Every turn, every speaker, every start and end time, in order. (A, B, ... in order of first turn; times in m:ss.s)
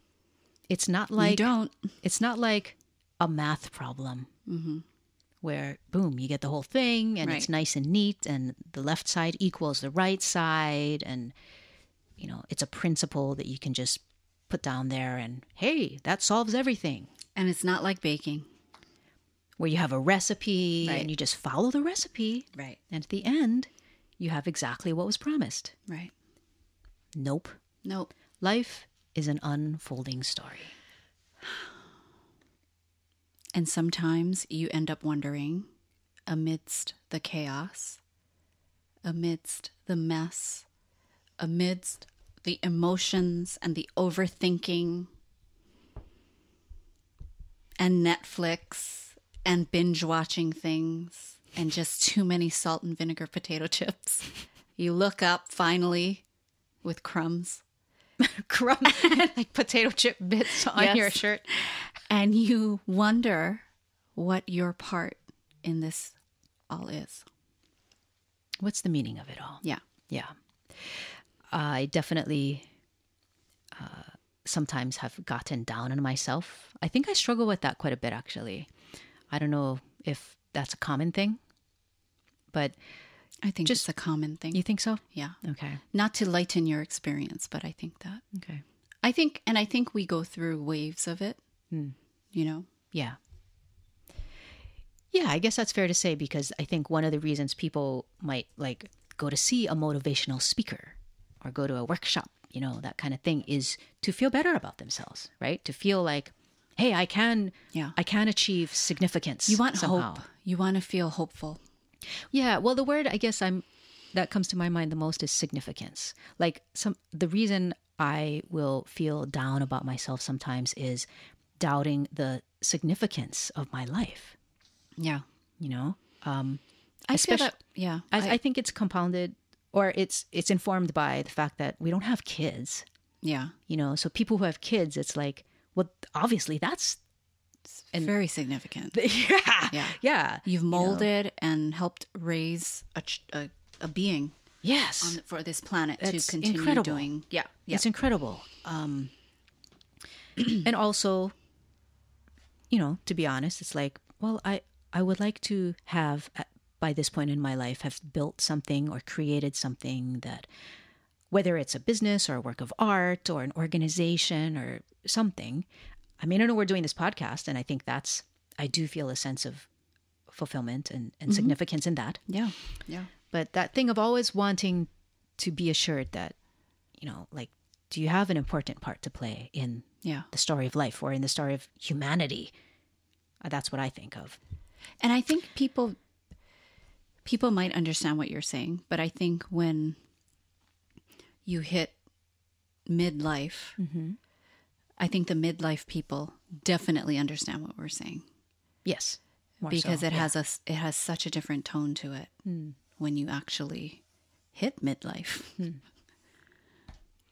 0:00.7-0:01.5 A
0:01.2-0:01.8 B
0:02.0-0:04.3 A
0:04.5-0:04.8 B
0:05.4-0:11.3 A
0:07.2-0:07.5 B
0:12.2-0:17.1 A
0:17.4-0:18.5 B
0:19.6-0:25.7 A
0:20.8-0:21.1 B
0:25.9-0:26.1 B
0:27.1-0:27.6 A
0:27.8-0:28.1 B
0:28.4-0:30.7 A
0:33.5-0:35.7 B
0:36.3-0:38.0 B
0:39.0-0:40.6 B
0:41.4-0:45.1 B
0:47.8-0:56.2 B
0:56.8-0:57.6 B
0:58.2-1:01.4 A
0:58.9-0:59.2 B
1:00.7-1:03.6 B
1:04.1-1:06.2 B
1:06.7-1:07.2 B
1:08.6-1:12.6 A
1:13.7-1:18.7 A
1:19.3-1:21.4 A
1:22.5-1:22.8 A
1:23.4-1:25.4 B
1:24.5-1:25.8 A
1:25.9-1:28.2 B
1:28.3-1:28.6 A
1:29.0-1:31.4 B
1:32.3-1:32.7 B
1:32.9-1:33.2 A
1:35.1-1:50.2 A
1:49.5-1:51.6 B
1:52.3-2:01.1 A
2:01.6-2:04.4 A
2:05.0-2:05.2 B
2:05.6-2:06.6 A
2:07.1-2:08.3 B
2:07.1-2:07.6 A
2:08.1-2:12.8 A
2:13.2-2:13.5 B
2:13.7-2:17.0 A
2:17.9-2:19.0 B
2:18.9-2:21.1 A
2:19.7-2:24.3 B
2:24.6-2:25.2 A
2:25.0-2:27.8 B
2:26.0-2:27.1 A
2:27.7-2:29.1 A
2:30.5-2:31.3 A
2:32.7-2:40.5 A
2:41.3-2:45.6 A
2:46.2-2:49.7 A
2:50.3-2:52.2 A
2:51.3-2:51.5 B
2:52.3-2:53.1 B
2:53.3-2:56.3 A
2:57.0-3:02.5 A
3:00.0-3:00.3 B
3:03.4-3:04.4 A
3:05.0-3:06.0 B
3:07.2-3:10.0 B
3:11.4-3:12.0 B
3:12.9-3:13.8 B
3:13.8-3:14.2 A
3:15.0-3:18.2 B
3:18.8-3:20.3 A
3:19.6-3:22.4 B
3:22.4-3:22.8 A
3:23.0-3:24.0 B
3:24.5-3:25.6 B